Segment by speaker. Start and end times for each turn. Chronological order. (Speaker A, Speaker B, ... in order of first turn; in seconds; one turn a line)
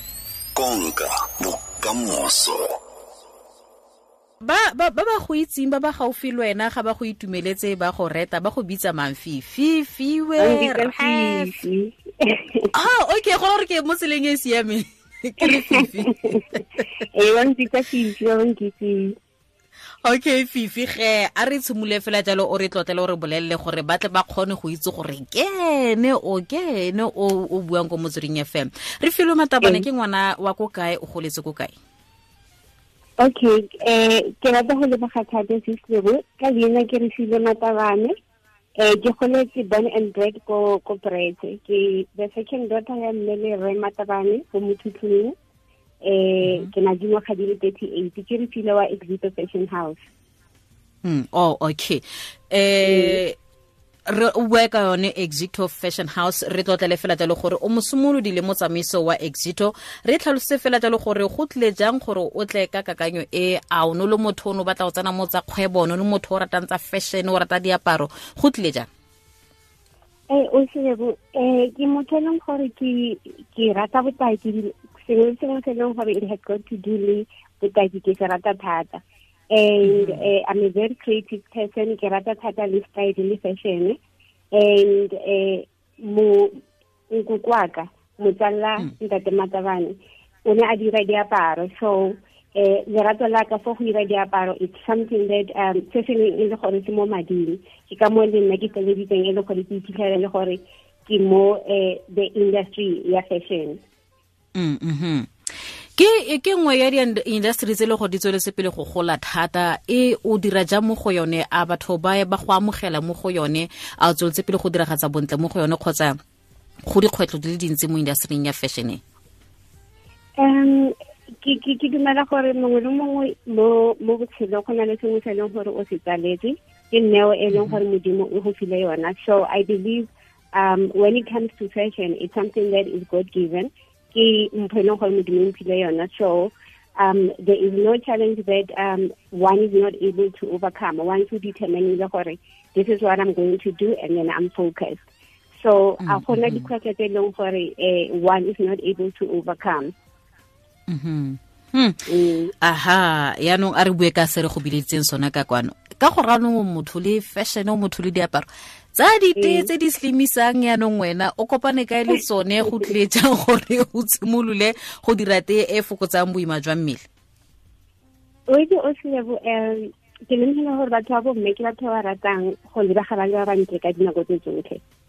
Speaker A: 0.6-2.7
Speaker B: 4.4-11.5
Speaker C: 10.4-12.7
Speaker B: 12.7-16.9
Speaker C: 15.4-16.5
Speaker C: 17.0-19.1
Speaker B: 20.0-31.7
Speaker C: 29.6-29.9
Speaker C: 33.2-38.1
Speaker C: 38.8-45.4
Speaker C: 46.0-50.0
Speaker B: 46.4-46.7
Speaker B: 51.0-53.4
Speaker C: 52.8-53.2
Speaker B: 54.1-68.9
Speaker C: 70.3-84.0
Speaker B: 79.8-80.2
Speaker C: 84.5-103.8
Speaker B: 104.5-105.3
Speaker B: 106.0-116.2
Speaker B: 116.9-119.0
Speaker C: 120.4-145.0
Speaker C: 145.6-149.9
Speaker B: 146.1-146.7
Speaker B: 150.9-152.0
Speaker C: 152.1-152.5
Speaker B: 152.6-167.0
Speaker C: 159.4-159.7
Speaker C: 162.1-162.9
Speaker C: 168.5-174.8